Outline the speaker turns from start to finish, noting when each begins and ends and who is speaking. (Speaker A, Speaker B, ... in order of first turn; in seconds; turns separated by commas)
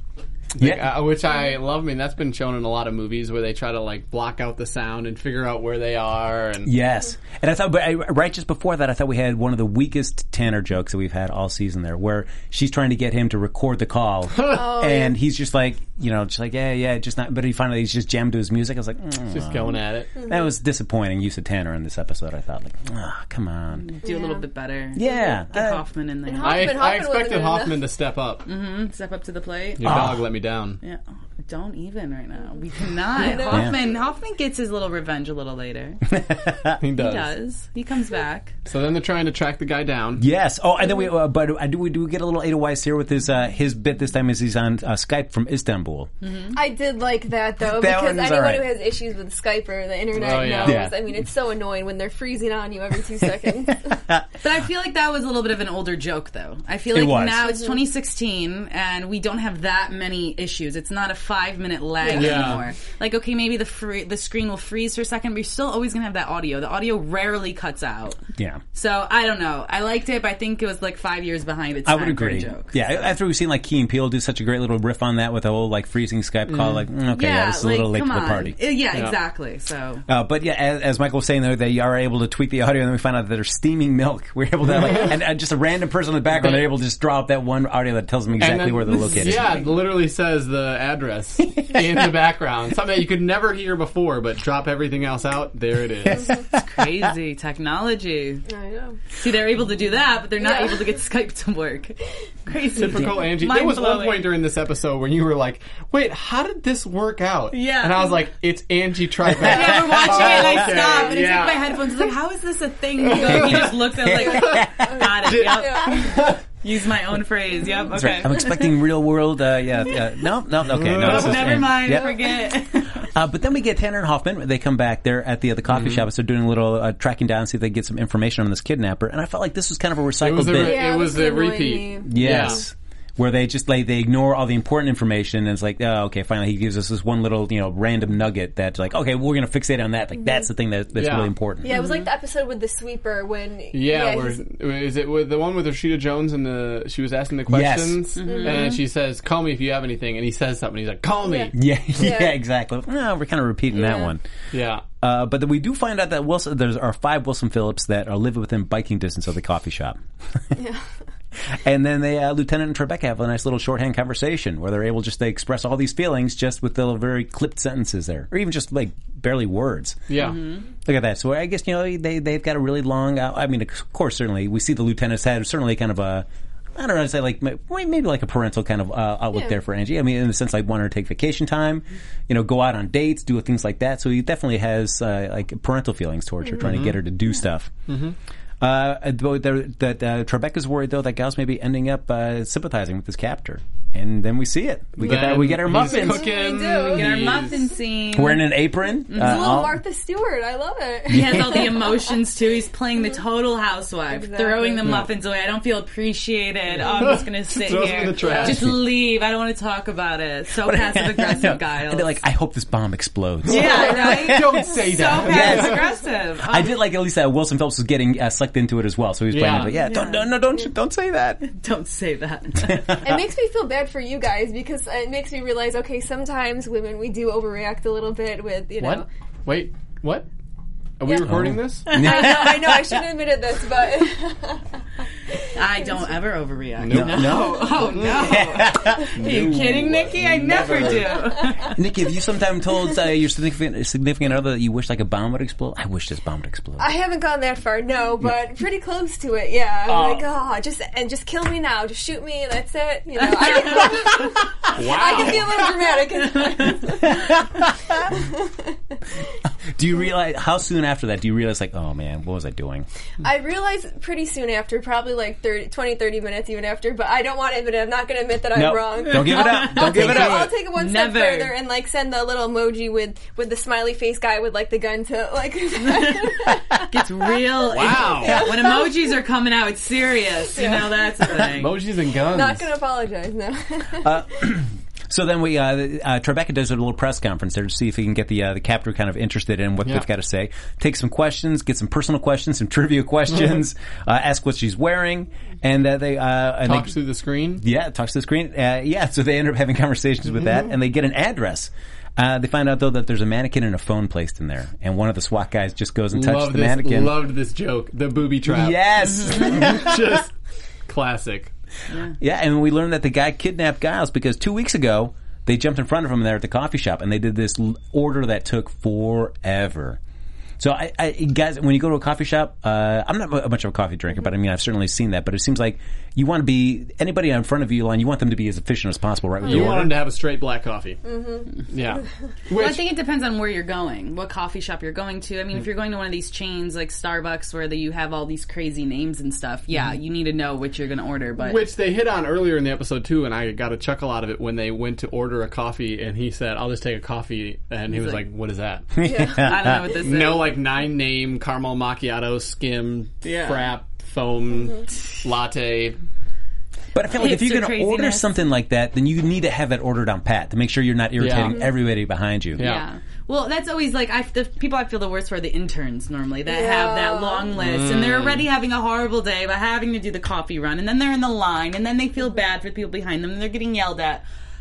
Speaker A: 0.5-6.7, Speaker B: 0.6-1.0, Speaker B: 6.6-23.9, Speaker C: 14.4-15.1, Speaker A: 19.3-20.2, Speaker D: 23.8-26.8, Speaker C: 24.0-24.4, Speaker B: 24.9-25.8, Speaker C: 26.3-27.8, Speaker A: 26.4-28.5, Speaker D: 28.4-30.2, Speaker A: 29.8-30.8, Speaker B: 29.8-30.2, Speaker D: 30.8-36.0, Speaker C: 33.2-33.8, Speaker B: 36.1-36.8, Speaker A: 36.8-37.3, Speaker D: 36.9-38.5, Speaker A: 38.6-40.2, Speaker B: 40.2-46.1, Speaker D: 46.2-46.6, Speaker C: 46.5-54.0, Speaker B: 47.6-48.7, Speaker A: 50.1-50.9, Speaker B: 50.6-51.0, Speaker B: 53.7-54.2, Speaker D: 54.4-68.2, Speaker B: 56.9-57.5, Speaker C: 62.0-62.6, Speaker A: 62.1-62.6, Speaker B: 68.3-68.6, Speaker D: 68.7-73.1, Speaker B: 71.8-78.6, Speaker A: 76.5-76.8, Speaker D: 77.1-80.0, Speaker B: 80.1-89.5, Speaker A: 88.4-96.3, Speaker B: 91.6-92.0, Speaker B: 96.3-96.6, Speaker D: 96.6-98.4, Speaker C: 98.5-99.0, Speaker D: 99.2-104.3, Speaker C: 100.4-100.8, Speaker A: 102.8-111.8, Speaker D: 107.5-108.2, Speaker D: 109.3-118.7, Speaker B: 109.5-110.5, Speaker A: 113.2-113.7, Speaker B: 113.3-114.9, Speaker C: 114.2-116.1, Speaker A: 115.2-116.3, Speaker B: 117.9-122.1, Speaker A: 120.7-121.6, Speaker D: 120.9-123.0, Speaker B: 123.0-130.8, Speaker A: 125.7-126.0, Speaker A: 130.2-132.6, Speaker C: 130.5-132.5, Speaker B: 132.1-141.7, Speaker A: 140.9-141.3, Speaker C: 141.6-144.4, Speaker D: 141.7-142.0, Speaker A: 143.7-151.5, Speaker B: 147.5-148.1, Speaker D: 148.2-148.8, Speaker C: 148.2-148.8, Speaker C: 151.2-152.4, Speaker B: 151.5-154.2, Speaker C: 153.7-154.1, Speaker A: 154.5-154.8, Speaker B: 154.9-160.0, Speaker C: 160.6-160.8, Speaker B: 161.5-170.1, Speaker A: 170.1-170.4, Speaker D: 170.1-170.6, Speaker B: 170.8-187.7, Speaker A: 186.6-187.0, Speaker A: 187.9-188.1, Speaker B: 188.6-196.3, Speaker A: 195.0-197.6, Speaker C: 195.8-197.6, Speaker D: 196.7-198.5, Speaker B: 198.1-199.8, Speaker D: 199.1-199.6, Speaker C: 199.1-202.0, Speaker D: 201.1-212.2, Speaker B: 201.1-201.7, Speaker C: 204.1-204.9, Speaker A: 204.8-205.1, Speaker A: 206.9-208.7, Speaker C: 208.1-208.5, Speaker B: 210.6-214.7, Speaker D: 213.4-216.7, Speaker A: 213.5-215.8, Speaker B: 215.2-215.8, Speaker B: 216.4-221.4, Speaker A: 219.3-219.8, Speaker D: 219.7-220.3, Speaker D: 221.4-223.0, Speaker B: 222.6-223.2, Speaker C: 223.0-229.1, Speaker A: 228.8-230.3, Speaker A: 231.0-232.0, Speaker B: 231.3-233.1, Speaker C: 231.9-234.7, Speaker D: 232.0-232.4, Speaker D: 235.5-241.7, Speaker A: 236.8-238.2, Speaker B: 236.9-239.2, Speaker A: 239.1-241.1, Speaker C: 241.3-241.7, Speaker B: 241.7-246.8, Speaker C: 246.8-257.4, Speaker A: 249.9-250.2, Speaker A: 254.7-255.6, Speaker B: 257.0-258.0, Speaker C: 258.0-258.8, Speaker B: 259.7-262.9, Speaker C: 263.2-277.0, Speaker B: 268.5-270.6, Speaker D: 269.2-271.5, Speaker D: 275.8-281.8, Speaker A: 277.7-278.4, Speaker C: 278.0-278.5, Speaker C: 280.6-281.3, Speaker A: 281.4-282.6, Speaker C: 282.2-284.2, Speaker B: 284.0-296.9, Speaker A: 296.6-297.6, Speaker B: 297.6-307.2, Speaker A: 306.1-310.3, Speaker B: 308.5-310.2, Speaker D: 309.1-309.6, Speaker A: 310.9-311.5, Speaker D: 311.9-312.1, Speaker B: 312.2-320.0, Speaker B: 320.6-330.0, Speaker A: 329.4-331.0, Speaker C: 331.0-331.5, Speaker A: 331.7-332.8, Speaker D: 332.5-341.7, Speaker A: 341.4-348.9, Speaker D: 347.9-348.3, Speaker B: 348.9-349.9, Speaker C: 349.0-349.4, Speaker D: 349.4-350.5, Speaker A: 350.0-356.0, Speaker D: 353.2-353.7, Speaker B: 356.9-362.6, Speaker D: 357.2-358.3, Speaker A: 361.2-361.6, Speaker A: 362.6-362.8, Speaker D: 362.6-374.2, Speaker C: 366.5-367.5, Speaker A: 367.6-368.4